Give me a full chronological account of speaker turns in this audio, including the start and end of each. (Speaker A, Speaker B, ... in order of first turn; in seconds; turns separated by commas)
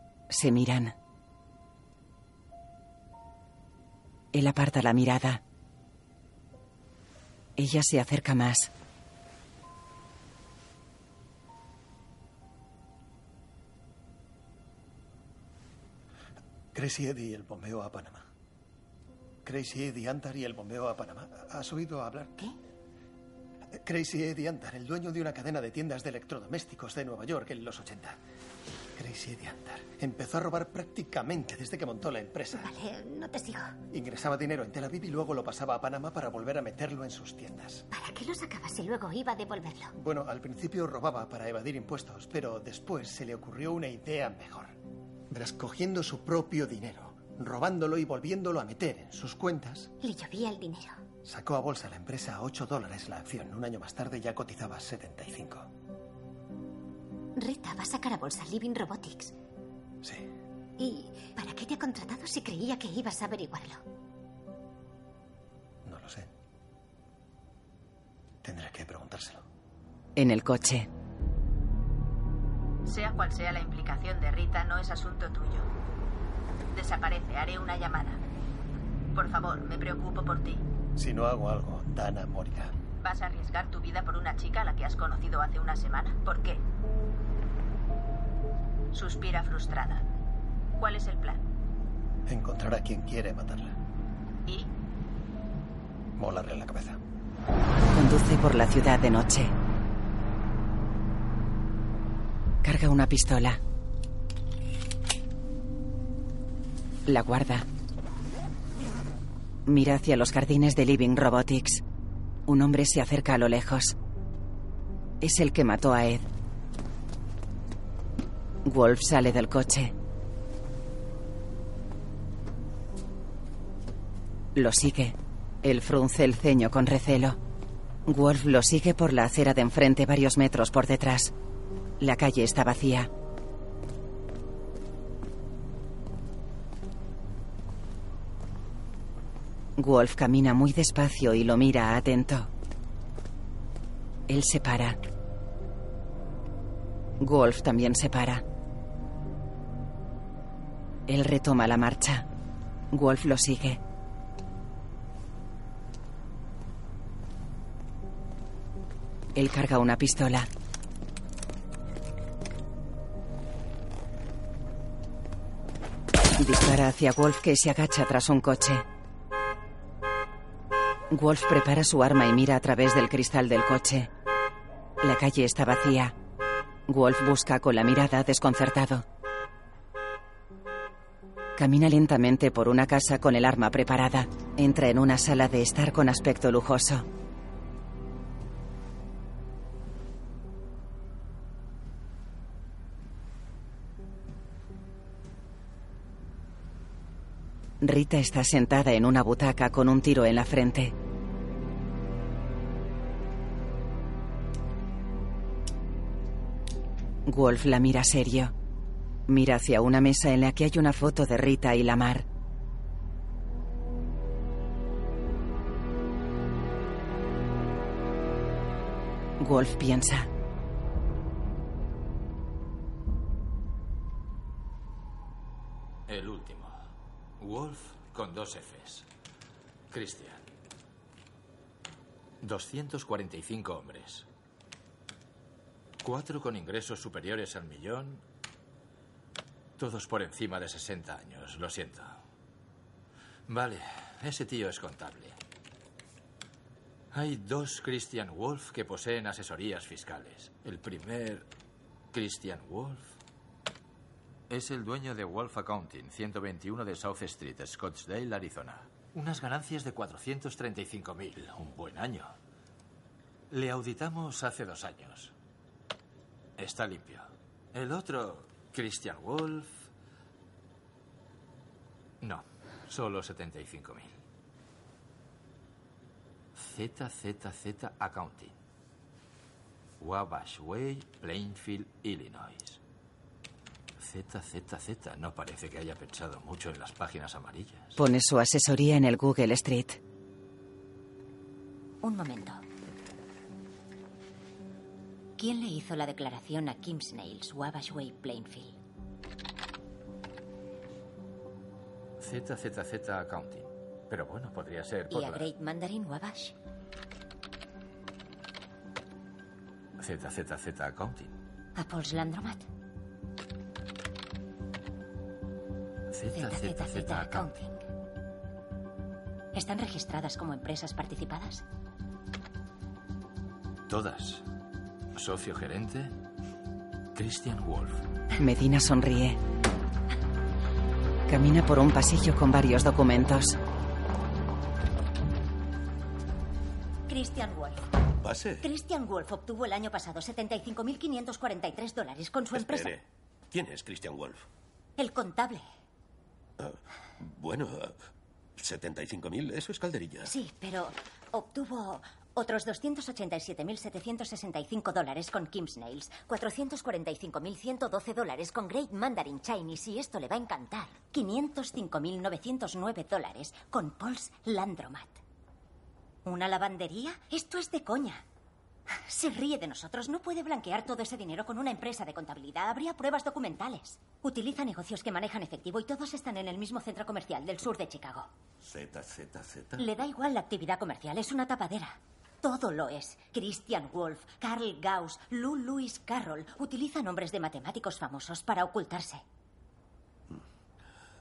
Speaker A: 0.3-0.9, Speaker A: 4.3-5.4, Speaker A: 7.6-8.7, Speaker B: 16.7-18.3, Speaker B: 19.4-22.3, Speaker B: 23.7-28.2, Speaker B: 28.9-32.7, Speaker C: 32.5-33.7, Speaker B: 33.9-37.9, Speaker C: 37.9-39.9, Speaker B: 39.9-44.8, Speaker B: 45.3-49.9, Speaker C: 50.0-51.0, Speaker B: 51.2-55.7, Speaker C: 57.4-59.3, Speaker B: 60.0-60.3, Speaker C: 60.8-63.8, Speaker B: 65.8-66.3, Speaker B: 68.4-69.4, Speaker A: 70.2-70.9, Speaker D: 72.8-75.7, Speaker D: 76.7-78.2, Speaker D: 79.1-80.7, Speaker B: 81.0-82.8, Speaker D: 83.0-86.6, Speaker D: 88.9-90.0, Speaker D: 90.8-91.4, Speaker B: 92.3-93.8, Speaker B: 96.2-97.0, Speaker A: 97.9-99.5, Speaker A: 102.6-103.6, Speaker A: 107.1-107.7, Speaker A: 109.7-111.8, Speaker A: 112.5-114.0, Speaker A: 115.2-116.2, Speaker A: 118.6-119.9, Speaker A: 124.5-127.4, Speaker A: 128.1-131.3, Speaker A: 132.0-133.1, Speaker A: 139.8-142.5, Speaker A: 144.3-145.0, Speaker A: 147.2-148.4, Speaker A: 151.1-152.2, Speaker A: 152.9-153.8, Speaker A: 159.3-160.5, Speaker A: 166.4-168.8, Speaker A: 171.1-174.1, Speaker A: 175.0-176.1, Speaker A: 176.9-179.0, Speaker A: 181.6-187.1, Speaker A: 197.8-200.9, Speaker A: 207.2-208.5, Speaker A: 209.3-212.2, Speaker A: 219.4-220.3, Speaker E: 226.1-226.8, Speaker E: 227.4-229.1, Speaker E: 229.9-230.4, Speaker E: 232.4-234.3, Speaker E: 236.0-238.2, Speaker E: 239.8-242.2, Speaker E: 243.5-245.3, Speaker E: 247.1-251.5, Speaker E: 252.1-253.1, Speaker E: 254.5-262.3, Speaker E: 263.5-265.3, Speaker E: 266.6-269.9, Speaker E: 272.2-274.1, Speaker E: 276.5-278.5, Speaker E: 280.0-282.8, Speaker E: 284.0-288.0, Speaker A: 288.0-290.0, Speaker F: 292.0-292.6, Speaker F: 295.4-298.8, Speaker E: 302.2-305.5, Speaker F: 305.1-306.5, Speaker E: 310.0-311.3, Speaker F: 311.8-312.7, Speaker E: 316.2-317.5, Speaker F: 316.3-317.7, Speaker F: 319.5-321.6, Speaker E: 323.9-324.4, Speaker E: 325.1-326.1, Speaker E: 327.1-328.0, Speaker A: 328.4-329.4, Speaker A: 331.3-333.6, Speaker F: 337.1-337.9, Speaker G: 338.2-338.7, Speaker F: 338.6-342.9, Speaker G: 342.5-344.5, Speaker F: 345.0-345.6, Speaker G: 346.6-348.0, Speaker G: 348.6-350.3, Speaker F: 350.2-365.2, Speaker F: 366.2-368.2, Speaker F: 368.9-378.3, Speaker G: 378.6-379.8, Speaker F: 379.8-389.2